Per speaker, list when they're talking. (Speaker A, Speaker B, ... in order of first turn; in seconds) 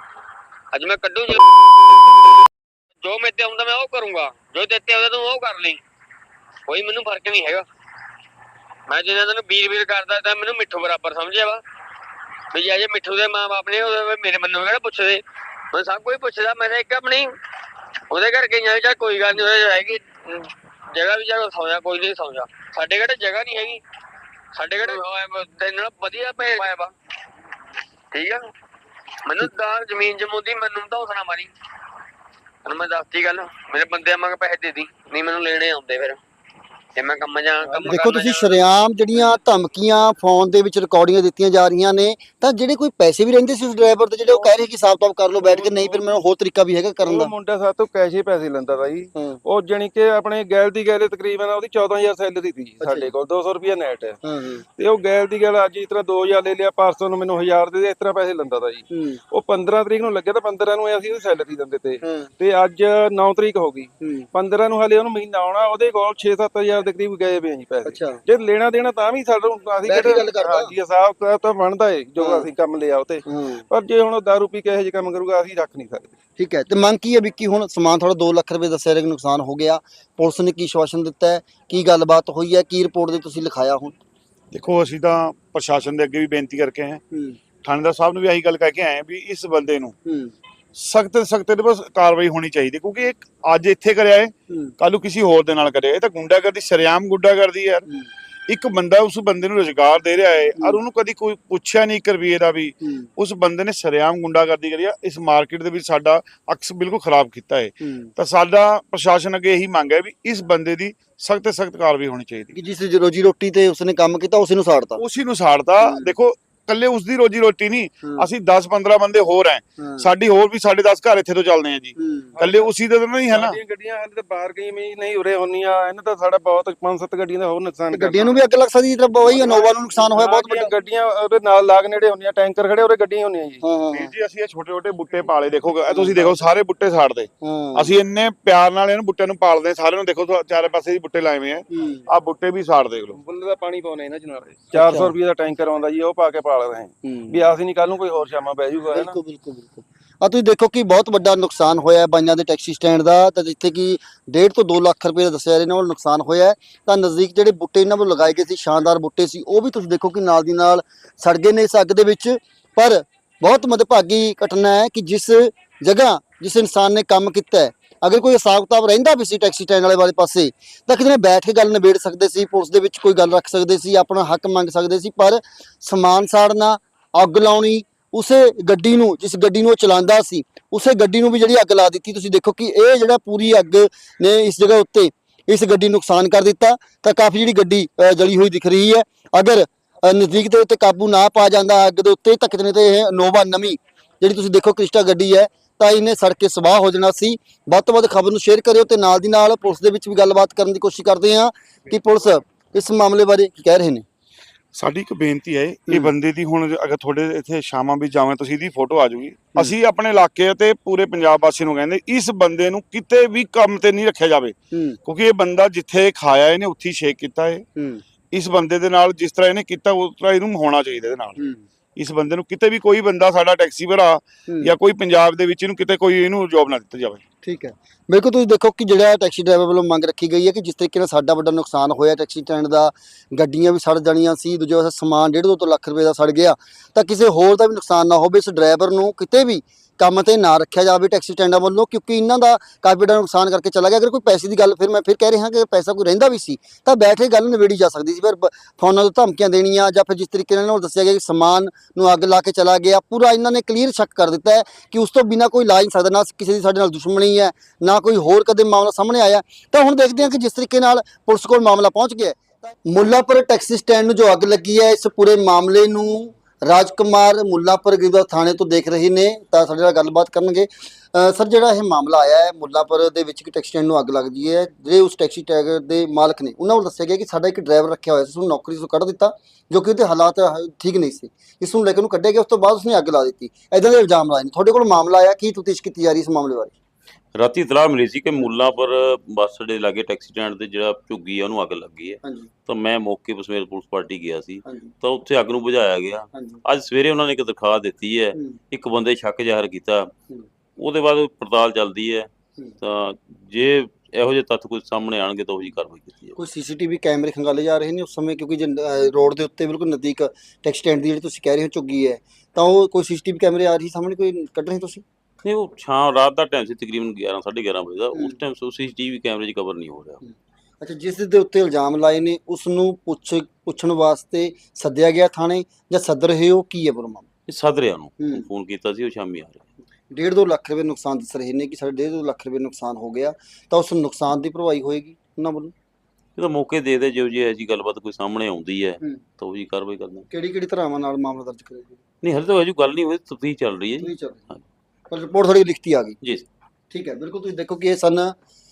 Speaker A: 0.7-1.5, 3.0-5.8, 6.7-7.7, 8.9-11.6, 12.5-17.3, 18.1-23.8, 24.5-26.9, 28.1-28.4, 29.2-31.5, 32.6-36.2, 37.0-38.5
Speaker B: 37.8-47.3, 49.1-49.4, 52.8-53.1, 54.2-54.6, 58.9-59.2, 62.0-62.3, 64.0-64.3, 67.8-68.2, 69.9-70.7, 72.2-72.5, 73.2-73.7, 76.4-84.0, 87.1-87.4, 90.0-90.3, 94.5-94.7, 102.8-103.1, 107.8-108.1, 112.5-115.0, 115.8-116.1, 119.8-120.1, 122.0-122.3, 127.9-130.7, 133.6-134.1, 135.9-136.4, 137.4-137.9, 141.7-142.1, 144.7-145.1, 147.0-147.5, 148.9-204.0, 214.7-215.0, 217.8-218.0, 221.4-221.6, 224.5-224.7, 227.4-286.7, 292.2-292.5, 294.6-294.9, 296.3-296.6, 306.4-315.0, 320.2-327.2, 328.2-328.4, 330.1-335.7, 340.3-342.0, 344.0-344.4, 345.1-346.2, 346.9-348.3
Speaker C: 44.2-44.6, 45.3-46.1, 47.0-54.2, 54.8-76.2, 122.3-122.7, 123.3-128.4, 129.2-133.6, 143.1-149.1
Speaker D: 84.5-87.0, 87.6-89.9, 90.8-97.8, 98.5-112.5, 115.0-123.6, 133.9-143.2, 204.7-217.6, 218.3-221.4, 221.9-227.2
Speaker E: 287.3-300.1, 300.8-302.3, 302.8-306.4, 315.4-320.2, 327.5-329.6, 336.4-340.2, 342.2-344.6